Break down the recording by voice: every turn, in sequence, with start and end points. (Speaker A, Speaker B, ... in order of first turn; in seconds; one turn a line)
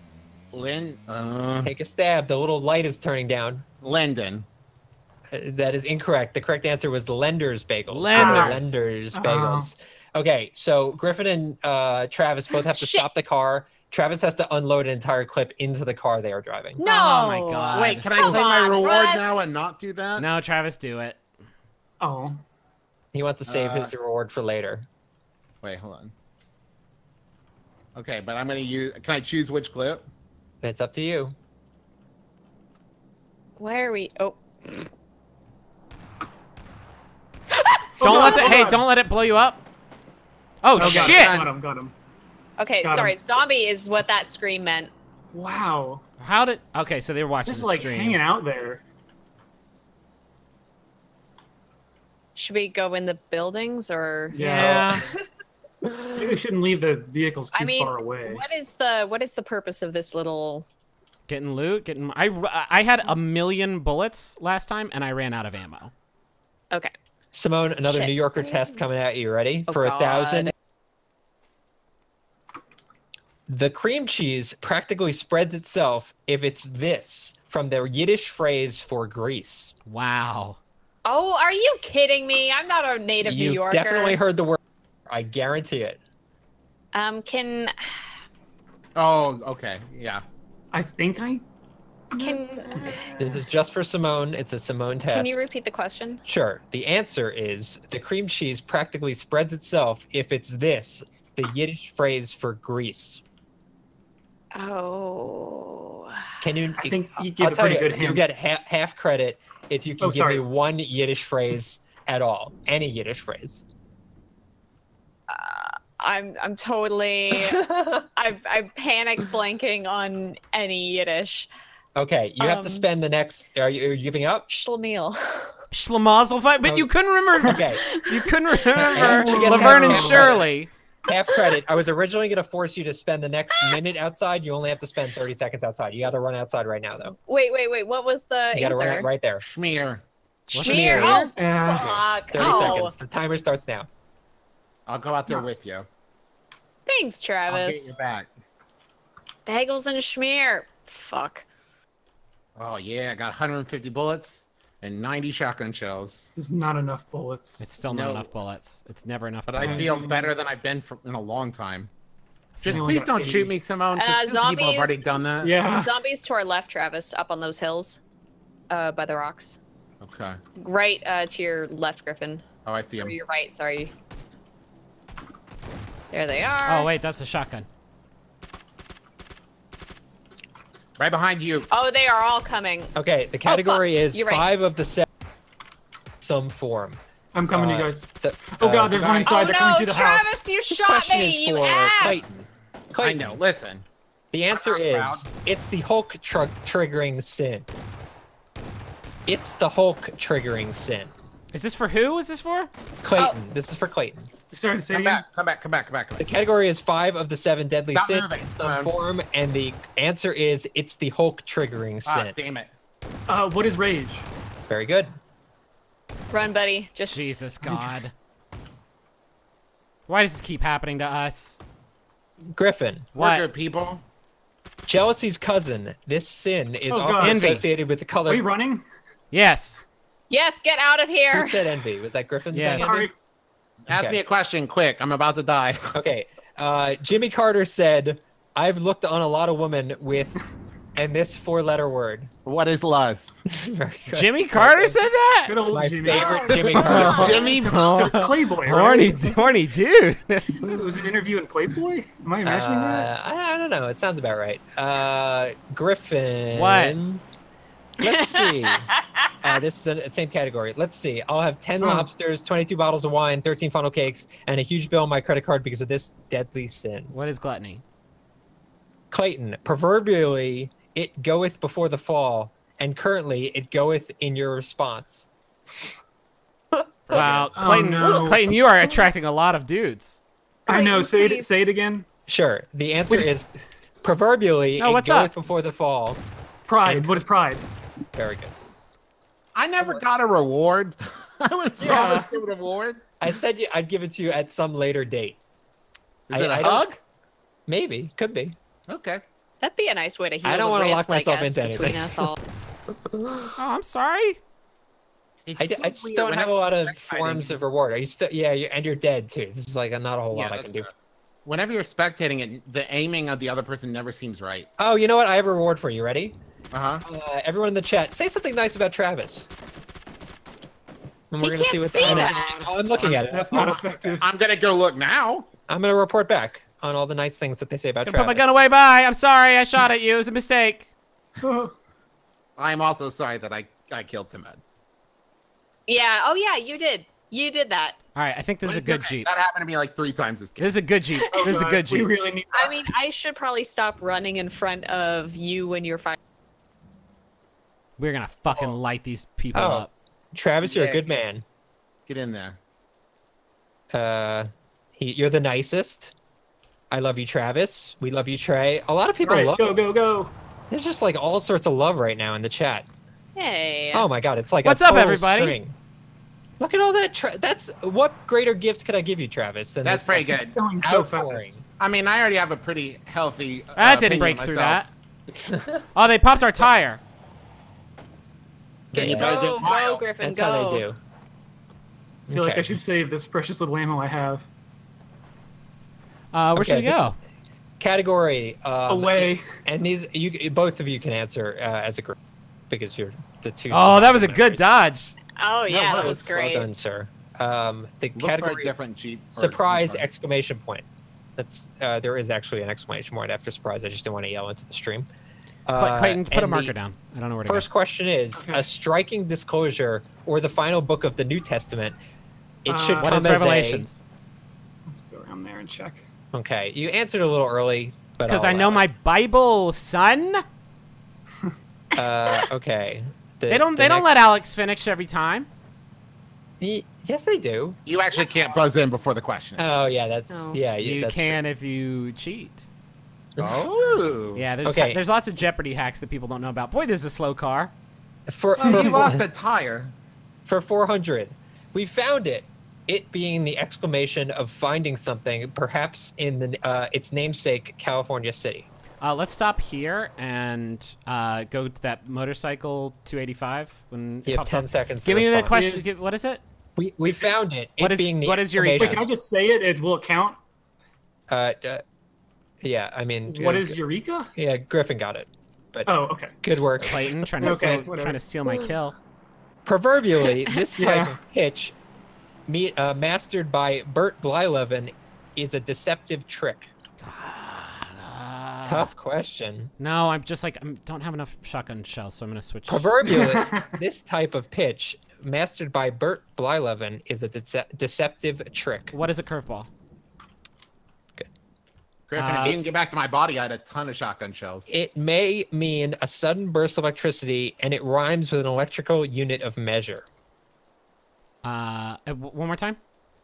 Speaker A: 0.5-1.7
Speaker B: 1.6-3.6
Speaker A: 3.8-4.5
Speaker B: 5.3-16.8
Speaker C: 7.9-8.8
Speaker D: 8.1-9.7
Speaker E: 12.7-13.1
Speaker E: 16.8-19.4
Speaker C: 16.8-18.4
Speaker A: 17.7-20.3
Speaker C: 20.2-21.2
Speaker D: 22.0-22.4
Speaker B: 23.1-24.9
Speaker A: 23.5-23.9
Speaker A: 25.6-26.1
Speaker A: 27.9-30.1
Speaker B: 30.6-31.3
Speaker E: 33.6-34.9
Speaker E: 37.6-38.5
Speaker D: 38.0-38.8
Speaker C: 38.0-39.6
Speaker C: 40.6-41.5
Speaker D: 40.7-41.9
Speaker A: 40.8-41.5
Speaker E: 42.6-44.9
Speaker D: 42.8-43.1
Speaker D: 45.3-46.0
Speaker C: 46.2-48.2
Speaker D: 47.4-48.8
Speaker E: 52.4-54.8
Speaker D: 54.3-55.1
Speaker C: 54.4-55.1
Speaker B: 54.8-55.2
Speaker B: 55.9-56.2
Speaker D: 56.1-58.4
Speaker E: 57.5-60.6
Speaker C: 61.3-65.9
Speaker B: 67.3-70.5
Speaker E: 67.8-68.7
Speaker E: 69.7-70.5
Speaker B: 73.5-79.7
Speaker C: 79.9-80.6
Speaker E: 81.0-84.2
Speaker B: 83.2-86.0
Speaker E: 86.9-88.0
Speaker A: 89.0-90.2
Speaker D: 90.7-91.4
Speaker D: 92.1-93.2
Speaker E: 92.2-93.1
Speaker B: 93.2-95.4
Speaker E: 95.1-96.2
Speaker B: 96.2-103.2
Speaker E: 104.5-106.3
Speaker B: 106.4-113.6
Speaker D: 106.8-108.3
Speaker D: 110.0-110.4
Speaker E: 115.3-121.5
Speaker B: 117.5-118.0
Speaker B: 122.0-124.5
Speaker E: 122.4-122.8
Speaker E: 124.5-125.6
Speaker C: 125.7-130.7
Speaker B: 126.6-127.8
Speaker E: 127.8-130.3
Speaker B: 128.8-130.5
Speaker D: 129.2-130.3
Speaker B: 131.1-137.2
Speaker E: 137.2-139.1
Speaker B: 138.5-139.4
Speaker A: 139.4-140.0
Speaker C: 140.5-141.4
Speaker E: 140.5-142.9
Speaker B: 140.5-141.3
Speaker D: 141.1-142.0
Speaker B: 142.3-143.9
Speaker A: 144.9-145.9
Speaker E: 146.9-147.9
Speaker A: 147.5-148.3
Speaker E: 149.4-151.4
Speaker A: 152.6-156.3
Speaker D: 156.3-157.6
Speaker C: 157.6-160.1
Speaker A: 157.9-158.3
Speaker A: 159.5-161.9
Speaker D: 159.6-160.3
Speaker C: 162.6-163.0
Speaker A: 162.6-165.5
Speaker D: 162.7-163.5
Speaker E: 163.9-165.0
Speaker D: 165.4-165.9
Speaker E: 165.6-168.0
Speaker E: 168.7-169.6
Speaker A: 170.0-170.4
Speaker E: 170.6-172.4
Speaker A: 172.7-173.1
Speaker E: 173.0-173.9
Speaker E: 176.1-176.9
Speaker C: 176.7-177.7
Speaker A: 181.0-181.7
Speaker E: 181.7-182.9
Speaker B: 182.9-185.1
Speaker E: 183.4-184.5
Speaker B: 186.2-187.0
Speaker D: 187.3-190.4
Speaker B: 187.5-189.0
Speaker A: 188.9-189.3
Speaker E: 189.2-192.4
Speaker B: 190.7-193.4
Speaker A: 193.0-193.8
Speaker B: 194.3-197.7
Speaker A: 194.5-195.2
Speaker B: 199.3-201.1
Speaker C: 201.5-202.7
Speaker B: 203.0-204.3
Speaker D: 204.5-205.2
Speaker A: 204.9-206.3
Speaker B: 206.2-212.4
Speaker A: 207.9-208.9
Speaker A: 212.1-212.7
Speaker D: 213.3-214.2
Speaker B: 214.7-215.1
Speaker E: 216.3-217.4
Speaker C: 217.1-218.1
Speaker D: 217.6-217.9
Speaker C: 220.1-221.6
Speaker B: 222.5-223.1
Speaker C: 223.2-223.4
Speaker A: 223.2-224.0
Speaker B: 224.9-228.4
Speaker D: 226.9-227.7
Speaker C: 227.2-227.6
Speaker D: 228.2-228.8
Speaker C: 229.3-229.8
Speaker E: 230.3-231.7
Speaker B: 231.3-233.1
Speaker C: 232.5-233.1
Speaker D: 232.8-233.1
Speaker A: 233.9-235.9
Speaker B: 233.9-234.2
Speaker B: 235.9-240.4
Speaker B: 240.9-242.3
Speaker A: 242.4-243.4
Speaker B: 243.5-245.0
Speaker C: 244.1-245.6
Speaker D: 245.4-249.2
Speaker B: 245.7-247.5
Speaker E: 246.1-247.5
Speaker A: 246.5-247.8
Speaker C: 246.7-250.7
Speaker D: 250.6-253.1
Speaker B: 252.4-257.2
Speaker C: 256.5-257.0
Speaker B: 258.0-258.9
Speaker E: 258.0-259.3
Speaker B: 259.4-267.1
Speaker D: 261.8-262.1
Speaker C: 267.1-267.8
Speaker B: 269.1-275.3
Speaker B: 276.7-278.2
Speaker C: 277.1-280.2
Speaker D: 277.5-278.6
Speaker E: 280.7-281.6
Speaker D: 280.7-282.1
Speaker B: 282.3-283.5
Speaker D: 283.1-283.4
Speaker B: 284.0-286.2
Speaker C: 284.8-285.3
Speaker D: 286.7-287.6
Speaker B: 286.8-287.2
Speaker B: 288.1-288.5
Speaker A: 289.5-293.0
Speaker B: 291.8-292.3
Speaker D: 291.9-292.3
Speaker B: 293.2-295.4
Speaker A: 296.3-297.0
Speaker B: 296.3-296.9
Speaker B: 297.7-298.6
Speaker A: 298.9-299.2
Speaker E: 299.6-302.4
Speaker B: 300.4-302.3
Speaker B: 303.1-303.6
Speaker C: 303.6-304.4
Speaker A: 305.4-307.6
Speaker B: 305.6-310.9
Speaker A: 310.3-310.9
Speaker A: 311.4-314.7
Speaker B: 314.8-316.4
Speaker A: 316.7-317.0
Speaker B: 317.0-319.5
Speaker B: 321.3-324.1
Speaker E: 321.4-322.7
Speaker A: 322.0-323.1
Speaker D: 323.1-324.3
Speaker A: 324.2-325.5
Speaker B: 325.7-328.6
Speaker C: 328.0-330.9
Speaker D: 331.4-331.7
Speaker A: 332.6-334.6
Speaker E: 335.9-338.0
Speaker C: 338.1-339.3
Speaker A: 338.6-340.8
Speaker C: 340.6-342.1
Speaker E: 341.2-341.5
Speaker D: 341.3-342.9
Speaker E: 342.5-346.2
Speaker C: 348.0-349.9
Speaker B: 349.5-351.4
Speaker A: 352.1-352.6
Speaker B: 353.9-356.1
Speaker B: 356.9-359.8
Speaker D: 359.2-360.3
Speaker B: 360.7-362.9
Speaker E: 363.4-364.1
Speaker B: 363.9-365.8
Speaker C: 364.6-365.6
Speaker B: 366.6-371.6
Speaker A: 369.8-370.5
Speaker D: 370.3-371.6
Speaker A: 371.8-374.8
Speaker C: 373.8-374.9
Speaker B: 375.3-375.9
Speaker C: 375.9-377.0
Speaker B: 378.9-379.6
Speaker A: 378.9-380.1
Speaker E: 378.9-380.8
Speaker B: 380.2-381.0
Speaker B: 382.3-382.7
Speaker D: 382.3-384.5
Speaker C: 386.3-387.1
Speaker B: 386.5-387.1
Speaker B: 387.8-392.1
Speaker D: 388.9-389.5
Speaker B: 392.7-394.7
Speaker C: 393.7-395.1
Speaker E: 395.4-396.7
Speaker D: 395.7-396.1
Speaker B: 395.8-398.7
Speaker A: 398.1-400.0
Speaker B: 399.3-400.9
Speaker B: 401.4-405.1
Speaker B: 405.7-406.7
Speaker C: 405.7-407.7
Speaker B: 407.4-412.0
Speaker D: 408.3-408.7
Speaker B: 412.6-413.9
Speaker D: 412.6-413.4
Speaker C: 413.0-414.0
Speaker D: 414.9-416.0
Speaker B: 416.3-418.8
Speaker C: 418.2-420.4
Speaker B: 421.9-424.2
Speaker C: 423.5-425.5
Speaker B: 426.6-427.8
Speaker A: 427.9-429.7
Speaker B: 429.6-431.4
Speaker E: 430.3-430.6
Speaker C: 430.8-432.7
Speaker B: 433.4-433.6
Speaker A: 433.4-434.4
Speaker C: 434.4-437.7
Speaker B: 434.6-435.0
Speaker B: 438.3-439.2
Speaker A: 438.6-439.9
Speaker B: 440.4-448.7
Speaker C: 449.0-456.4
Speaker B: 454.2-455.7
Speaker D: 455.5-456.0
Speaker B: 456.8-459.0
Speaker C: 457.8-459.0
Speaker D: 458.8-460.4
Speaker B: 461.3-461.8
Speaker B: 462.6-463.8
Speaker D: 463.3-464.3
Speaker B: 464.3-467.8
Speaker D: 465.9-466.4
Speaker C: 466.8-468.9
Speaker D: 467.4-468.2
Speaker B: 469.6-471.7
Speaker D: 470.8-471.1
Speaker B: 472.5-476.7
Speaker C: 477.0-478.9
Speaker B: 478.6-479.7
Speaker C: 479.8-482.9
Speaker B: 482.7-488.9
Speaker D: 483.0-483.7
Speaker C: 488.9-489.7
Speaker A: 492.1-494.7
Speaker C: 492.1-492.6
Speaker B: 494.7-500.0
Speaker C: 501.4-502.8